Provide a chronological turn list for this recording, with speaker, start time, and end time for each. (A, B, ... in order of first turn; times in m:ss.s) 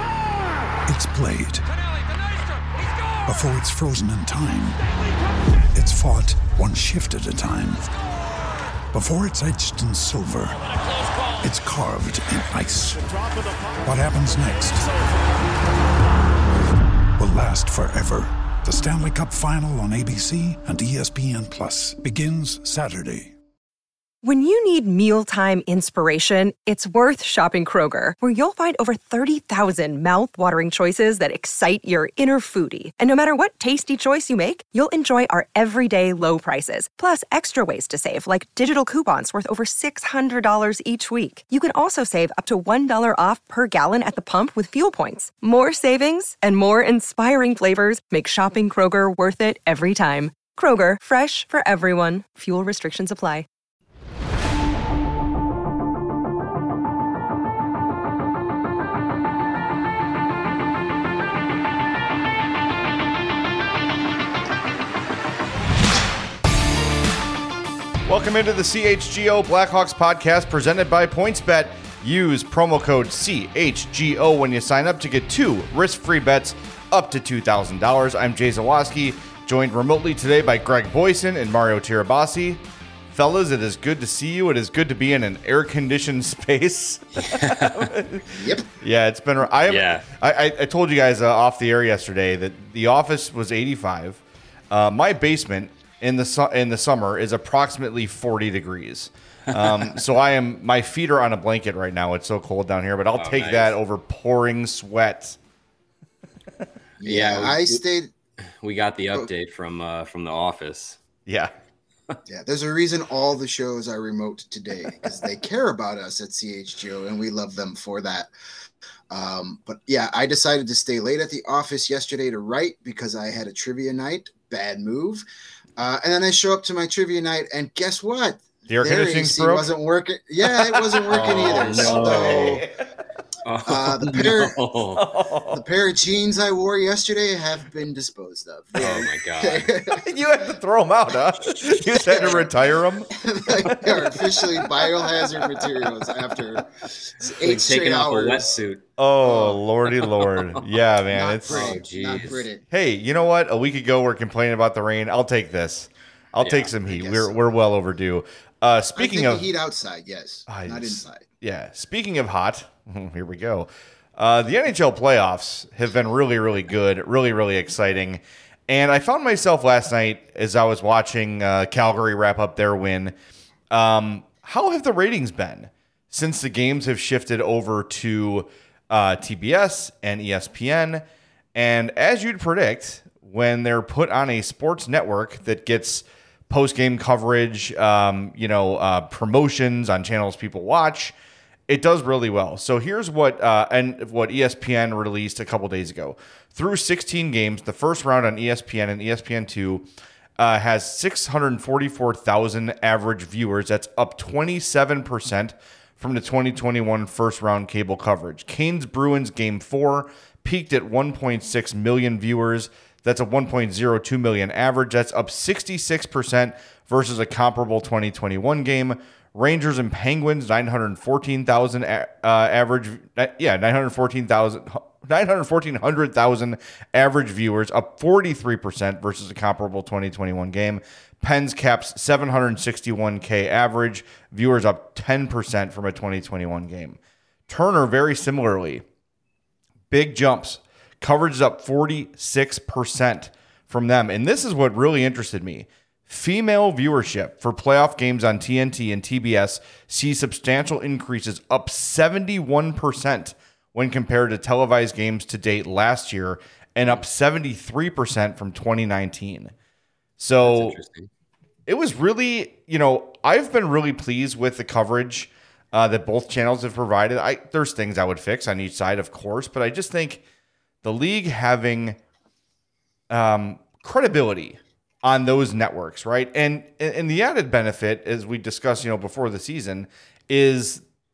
0:00.8-0:01.7 A
0:03.2-0:04.8 A
0:05.7-0:07.9 A
0:08.9-0:10.6 A
0:11.4-0:13.1 A
0:13.8-0:14.9 A
0:17.2-0:23.3 A
0:24.2-0:53.4 B
1:08.0-1:45.4 C
1:27.1-1:27.9 D
1:28.3-1:28.7 E
1:29.7-1:30.0 D
1:39.5-1:40.0 D
1:43.2-1:43.8 D
1:47.0-1:47.8 D
1:47.0-1:48.1 E
1:48.4-1:51.0 D
1:51.2-1:51.5 C
1:52.3-1:58.3 E
1:59.1-2:05.2 E
2:05.8-2:12.6 E
2:08.7-2:09.7 C
2:10.4-2:12.8 C
2:11.1-2:12.6 D
2:13.4-2:15.0 D
2:13.6-2:14.6 E
2:14.9-2:15.6 C
2:15.5-2:20.1 E
2:18.8-2:19.7 D
2:19.9-2:25.4 C
2:21.6-2:22.5 E
2:23.1-2:28.6 E
2:26.9-2:28.8 D
2:29.0-2:31.8 C
2:29.2-2:29.6 E
2:30.0-2:30.6 D
2:31.1-2:32.6 E
2:31.5-2:32.5 D
2:32.7-2:39.5 C
2:36.4-2:36.7 D
2:36.8-2:37.4 E
2:39.0-2:41.2 E
2:40.5-2:53.1 C
2:53.7-3:01.0 C
3:01.5-3:11.1 C
3:11.7-3:19.9 C
3:20.4-3:57.0 C
3:57.5-3:58.8 C
3:59.9-4:19.5 C
4:20.2-4:20.8 C
4:20.4-4:21.1 D
4:21.7-4:30.2 C
4:30.8-4:32.0 C
4:33.1-4:40.8 C